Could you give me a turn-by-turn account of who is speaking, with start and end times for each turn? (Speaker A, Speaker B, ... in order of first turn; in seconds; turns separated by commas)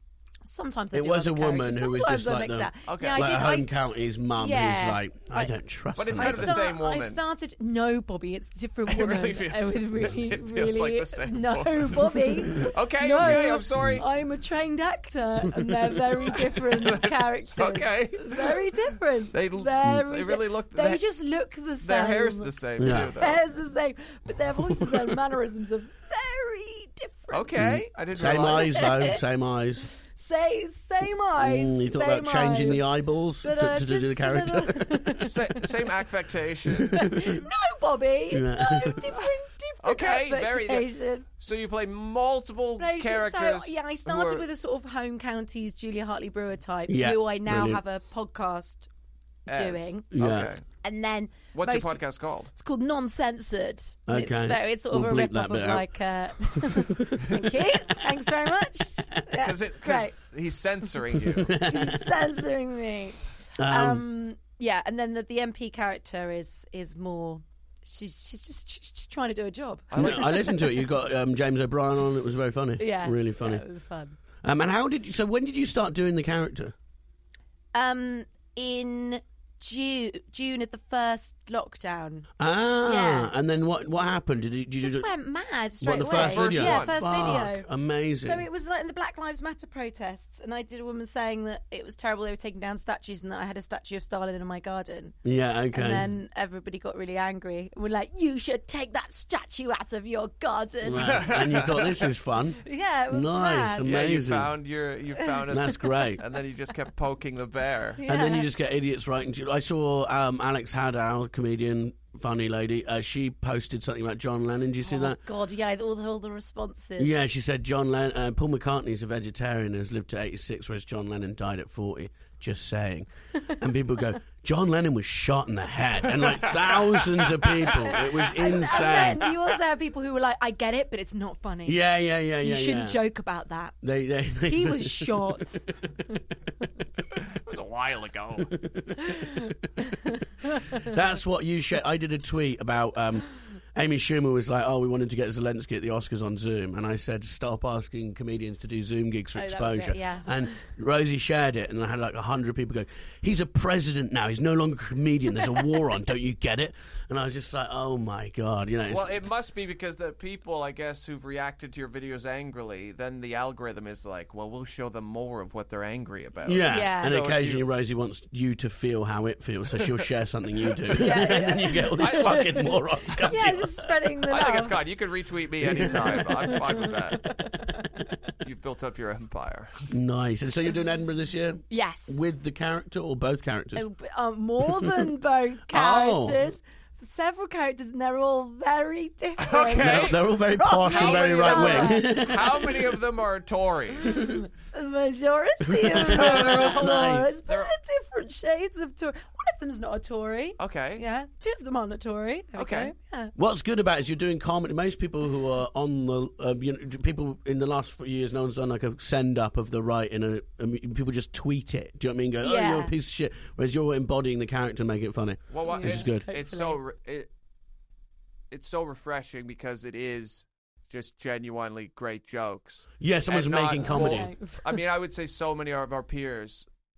Speaker A: 0.4-3.7, Speaker B: 0.9-6.6, Speaker C: 2.9-3.3, Speaker A: 4.4-5.5, Speaker C: 6.0-7.2, Speaker A: 6.1-27.8, Speaker C: 8.9-14.0, Speaker B: 13.2-14.0, Speaker C: 16.7-18.6, Speaker C: 19.3-21.0, Speaker C: 21.8-23.4, Speaker B: 22.8-23.1, Speaker C: 27.3-28.9, Speaker B: 27.5-29.9, Speaker A: 28.5-29.2, Speaker A: 30.1-32.8, Speaker B: 31.4-35.2, Speaker A: 33.4-35.4, Speaker C: 35.2-37.0, Speaker B: 36.9-37.3, Speaker A: 36.9-41.2, Speaker B: 38.3-39.1, Speaker C: 39.8-44.4, Speaker A: 42.8-48.9, Speaker B: 46.9-47.8, Speaker C: 49.5-50.6, Speaker A: 49.5-50.0, Speaker B: 50.1-50.5, Speaker A: 50.8-52.0, Speaker C: 51.5-52.5, Speaker A: 52.5-60.1, Speaker B: 54.1-55.9, Speaker B: 56.5-57.4, Speaker C: 59.3-61.6, Speaker B: 61.1-62.0, Speaker A: 61.7-70.6, Speaker B: 63.6-64.0, Speaker C: 69.9-70.3, Speaker B: 69.9-73.7, Speaker A: 72.8-74.2, Speaker B: 74.4-76.7, Speaker A: 77.7-82.3, Speaker B: 82.4-85.1, Speaker A: 82.8-83.3, Speaker A: 84.8-87.7, Speaker B: 85.8-88.4, Speaker C: 86.2-87.1, Speaker A: 88.2-95.1, Speaker B: 95.2-96.1, Speaker A: 95.7-101.4, Speaker B: 100.8-104.6, Speaker C: 101.0-102.0, Speaker A: 102.6-103.9, Speaker C: 103.8-108.0, Speaker B: 105.5-106.2, Speaker A: 108.0-108.5, Speaker B: 108.0-115.2, Speaker A: 114.8-117.2, Speaker B: 117.0-129.3, Speaker C: 126.2-128.2, Speaker A: 127.6-131.8, Speaker B: 131.7-133.0, Speaker A: 132.4-133.7, Speaker B: 133.8-135.4, Speaker A: 134.4-135.7, Speaker C: 137.2-138.6, Speaker B: 138.6-139.6, Speaker A: 139.1-140.9, Speaker B: 140.8-159.1, Speaker A: 149.3-150.6, Speaker C: 158.9-167.7, Speaker B: 166.4-173.8, Speaker A: 166.7-167.1, Speaker A: 170.9-172.7, Speaker C: 171.1-171.4, Speaker C: 172.0-172.6, Speaker A: 173.2-174.8, Speaker C: 174.3-177.2, Speaker B: 175.6-176.3, Speaker A: 175.8-178.1, Speaker C: 178.4-179.8, Speaker B: 179.9-183.8, Speaker A: 181.7-182.2, Speaker A: 183.7-192.1, Speaker B: 184.6-185.1, Speaker B: 185.7-186.5, Speaker C: 189.4-190.2, Speaker B: 189.7-192.9, Speaker C: 190.8-194.2, Speaker A: 194.0-203.3, Speaker B: 195.7-197.3, Speaker C: 195.9-196.9, Speaker C: 200.6-201.0, Speaker C: 202.6-202.9, Speaker B: 203.3-216.3, Speaker A: 212.4-212.9, Speaker C: 215.5-217.3, Speaker A: 215.7-216.8, Speaker C: 218.5-226.7, Speaker B: 223.0-224.3, Speaker A: 223.8-224.7